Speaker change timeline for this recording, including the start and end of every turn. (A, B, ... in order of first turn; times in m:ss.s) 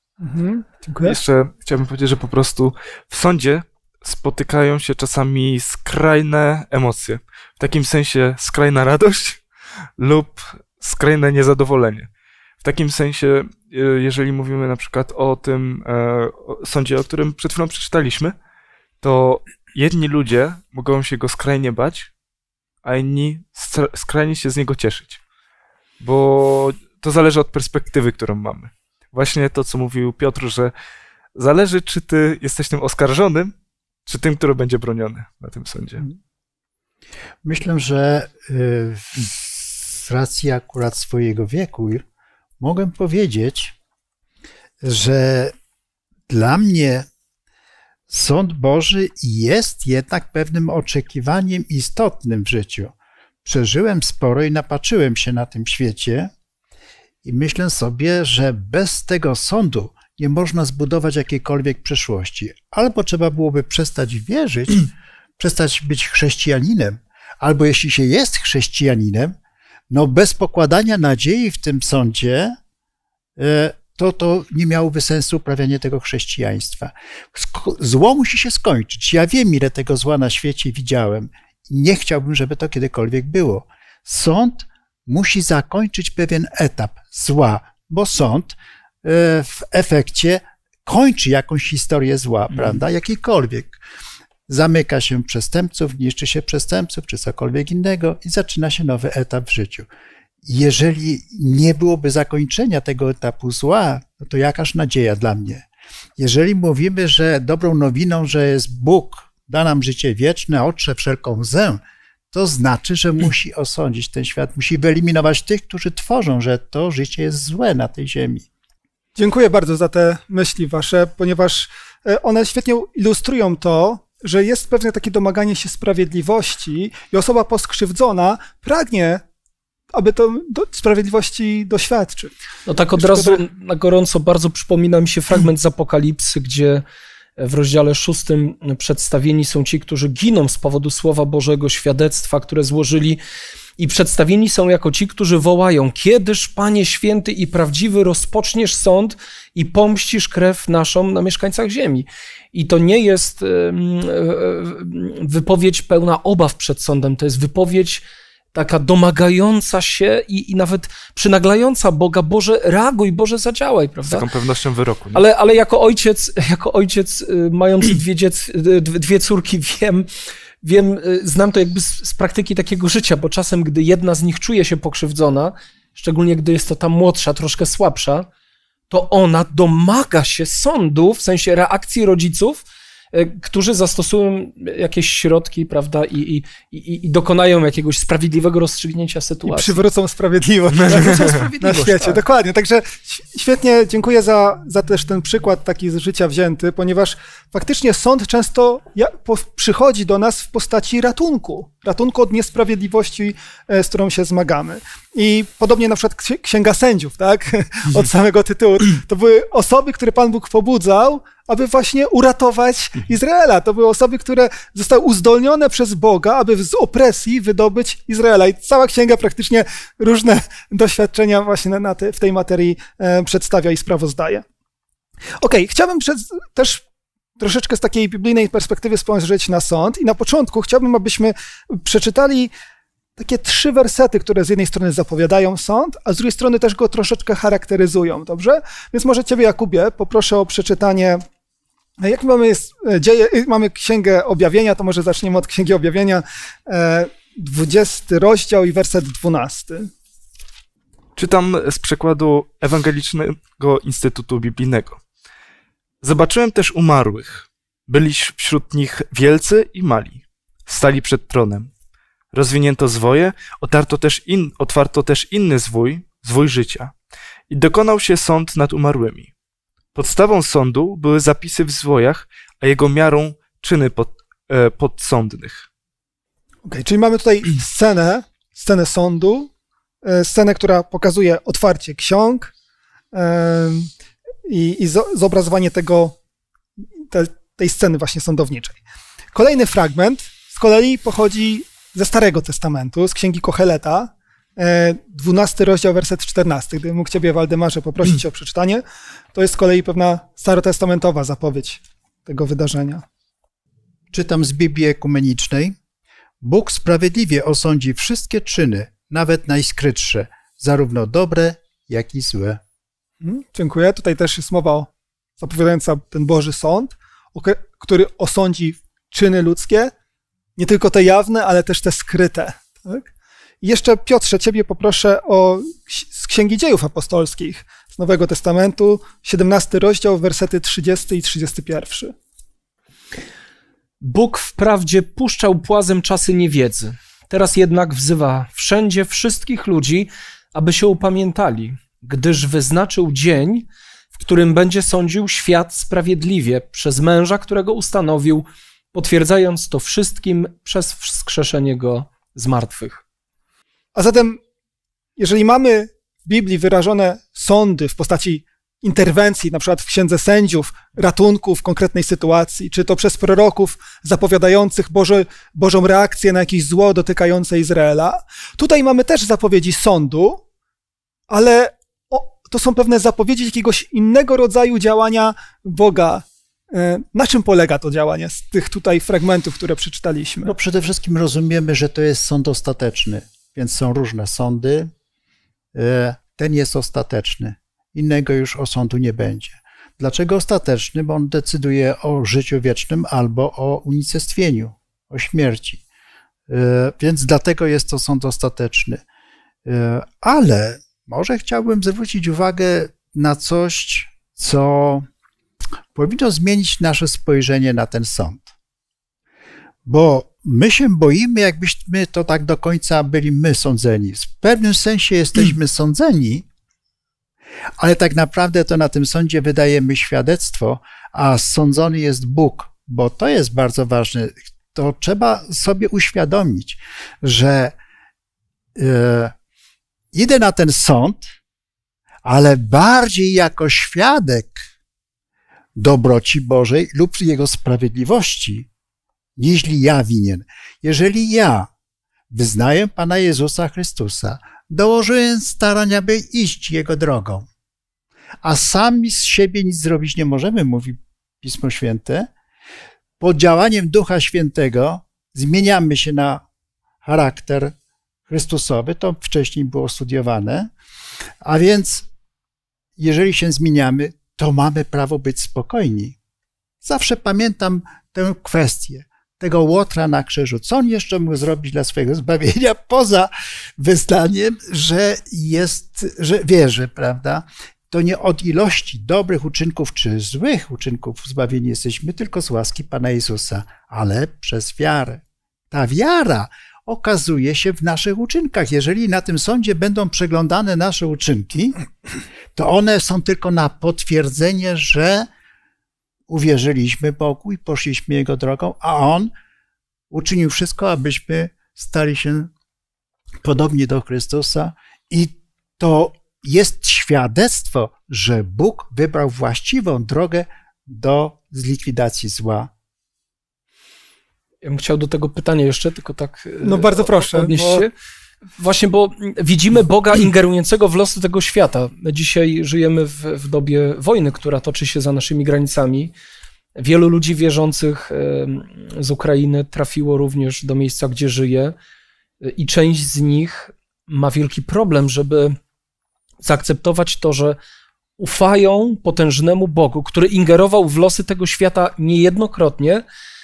0:00.2-0:01.2 A
0:01.0-0:09.4 B
0:10.0-0:12.1 B
0:12.6-0:18.4 B
0:19.0-0:22.1 B
0:22.8-0:25.2 B
0:26.0-0:30.7 B
0:31.4-0:33.5 B
0:34.1-0:36.1 B
0:37.4-0:42.0 C
0:42.6-0:43.7 C
0:44.8-0:45.5 C
0:46.3-0:47.1 C
0:48.1-0:56.3 C
0:57.2-1:09.4 C
1:09.9-1:12.6 C
1:13.4-1:33.8 C
1:34.5-1:39.9 C
1:40.4-1:45.6 C
1:46.2-1:51.8 C
1:52.3-1:58.5 C
1:59.2-2:09.2 A
2:09.9-2:12.3 A
2:12.7-2:16.8 D
2:13.0-2:13.4 A
2:17.4-2:23.2 D
2:23.8-2:44.3 D
2:44.0-2:45.2 B
2:45.1-2:50.1 D
2:50.6-2:58.3 D
2:58.9-3:09.8 D
3:09.5-3:44.4 A
3:10.9-3:12.2 D
3:45.4-3:46.8 A
3:47.4-3:52.5 A
3:53.2-4:01.2 A
4:02.0-4:09.9 A
4:11.2-4:15.0 B
4:16.0-4:21.7 B
4:22.3-4:26.9 B
4:27.5-4:29.3 B
4:29.9-4:35.7 B
4:36.6-4:39.5 A
4:40.0-4:42.5 A
4:43.1-4:43.9 A
4:44.5-4:46.2 A
4:47.1-4:48.8 A
4:49.3-4:58.8 A
4:59.3-5:03.0 A
5:04.1-5:05.8 C
5:06.4-5:12.6 C
5:13.2-5:14.9 A
5:15.4-5:19.9 A
5:20.6-5:23.1 A
5:23.6-5:32.1 A
5:34.0-5:53.0 D
5:54.0-5:54.4 A
5:55.2-6:10.4 A
6:11.3-6:20.5 A
6:20.4-6:24.9 C
6:25.7-6:35.8 C
6:36.5-6:39.0 C
6:39.6-6:45.1 C
6:45.9-6:48.5 C
6:49.8-6:56.4 C
6:57.8-7:07.8 C
7:08.8-7:09.3 C
7:10.1-7:11.3 C
7:12.2-7:14.7 C
7:15.8-7:18.7 C
7:19.4-7:21.7 C
7:22.3-7:27.5 C
7:28.4-7:32.3 C
7:33.2-7:36.4 C
7:37.0-7:37.7 C
7:38.3-7:40.7 C
7:41.4-7:42.1 C
7:43.0-7:46.2 C
7:46.8-8:11.8 C
8:12.6-8:15.3 C
8:16.3-8:19.3 C
8:20.1-8:22.5 C
8:23.4-8:32.7 C
8:34.6-8:37.9 D
8:36.6-8:37.9 A
8:38.6-8:46.1 D
8:46.8-8:51.8 D
8:52.4-8:55.6 D
8:56.4-8:57.6 D
8:58.2-9:03.0 D